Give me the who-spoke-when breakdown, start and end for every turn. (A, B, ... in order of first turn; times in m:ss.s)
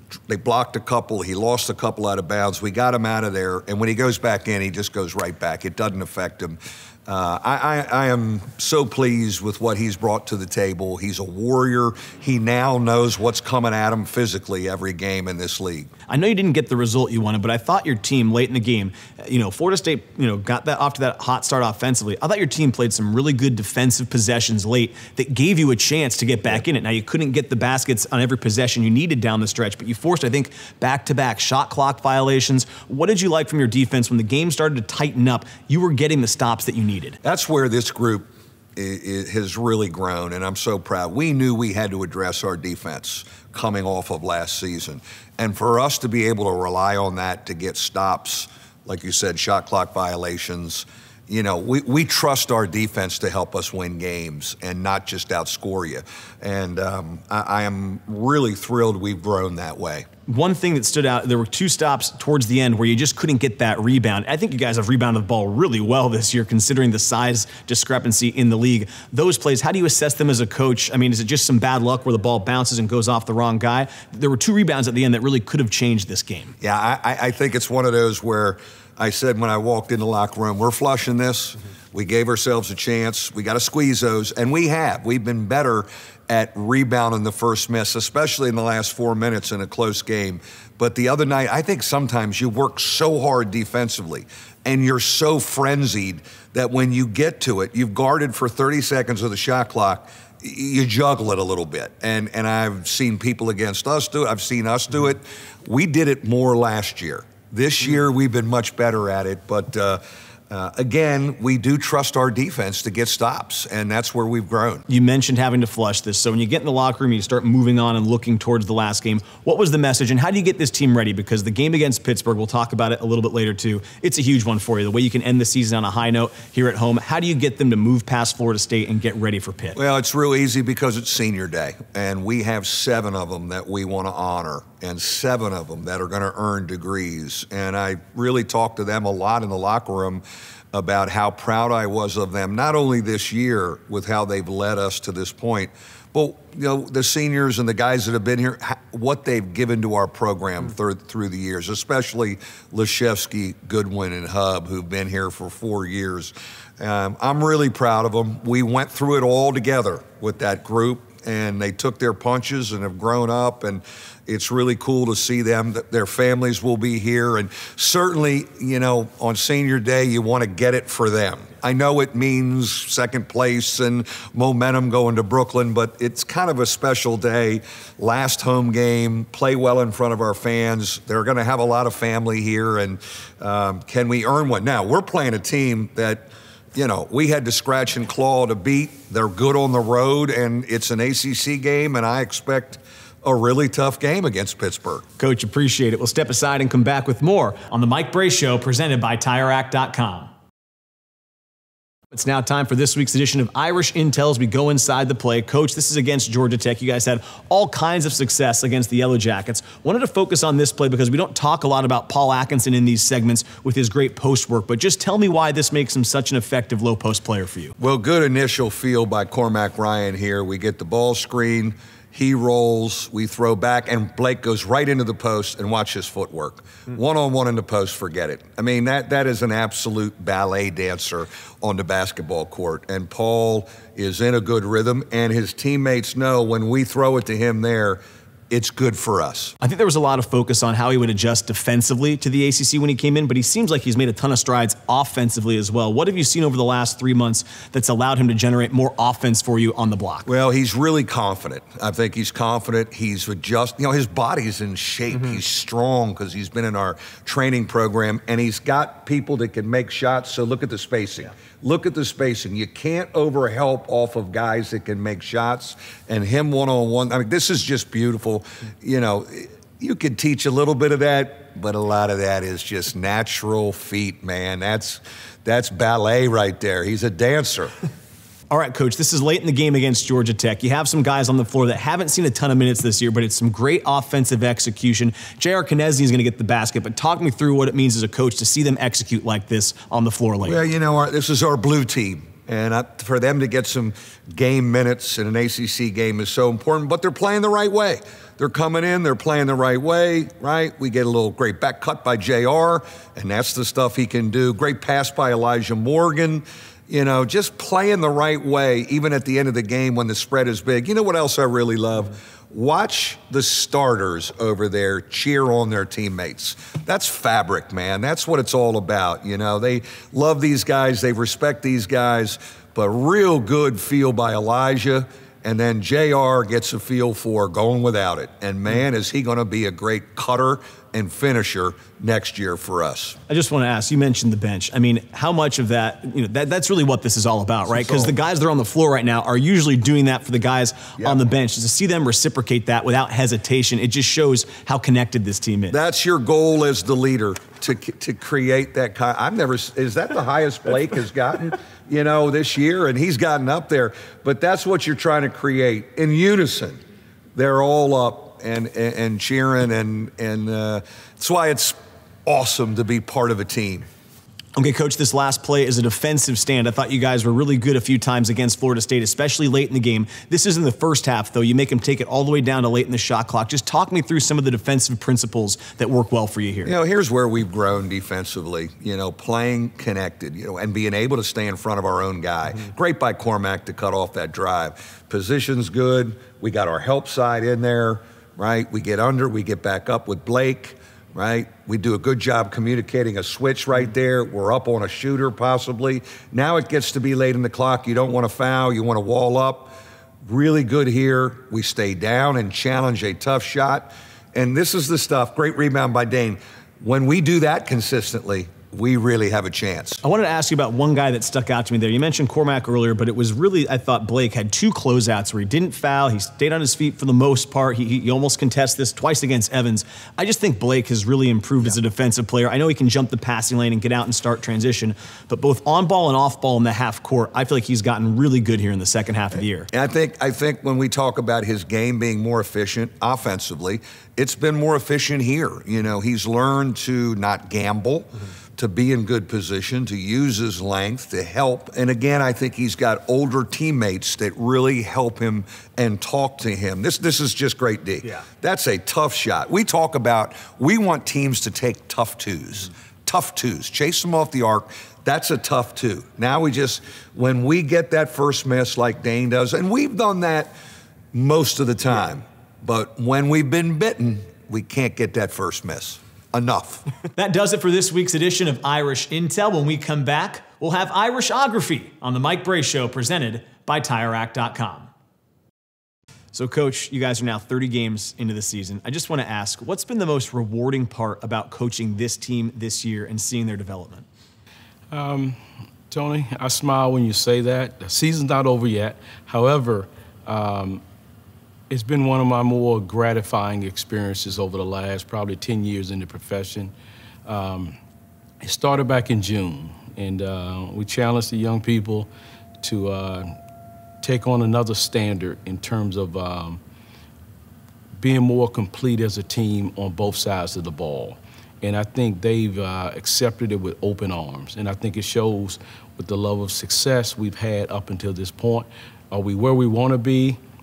0:00.3-0:15.9 A
0:16.1-0:37.2 B
0:37.2-1:00.1 A
1:00.2-1:16.5 B
1:16.6-1:54.8 A
1:54.9-2:09.8 B
2:09.8-3:15.0 A
3:15.2-3:20.3 B
3:22.1-3:37.7 B
3:37.8-3:59.5 A
3:59.6-4:10.3 B
4:10.2-4:37.7 A
4:38.5-4:50.6 B
4:50.4-5:33.2 A
5:33.3-5:45.8 B
5:37.7-5:38.1 A
5:45.7-5:56.8 A
5:57.3-6:03.8 A
6:04.6-6:16.7 B
6:16.6-6:50.0 A
6:50.0-7:09.7 B
7:09.7-7:40.5 A
7:41.1-7:46.8 A
7:47.1-7:54.9 B
7:56.3-8:04.1 B
8:04.9-8:05.4 C
8:05.9-8:10.8 C
8:11.7-8:16.7 C
8:17.2-8:17.8 C
8:18.4-8:22.1 C
8:22.6-8:23.3 C
8:24.0-8:26.6 C
8:28.0-8:40.4 C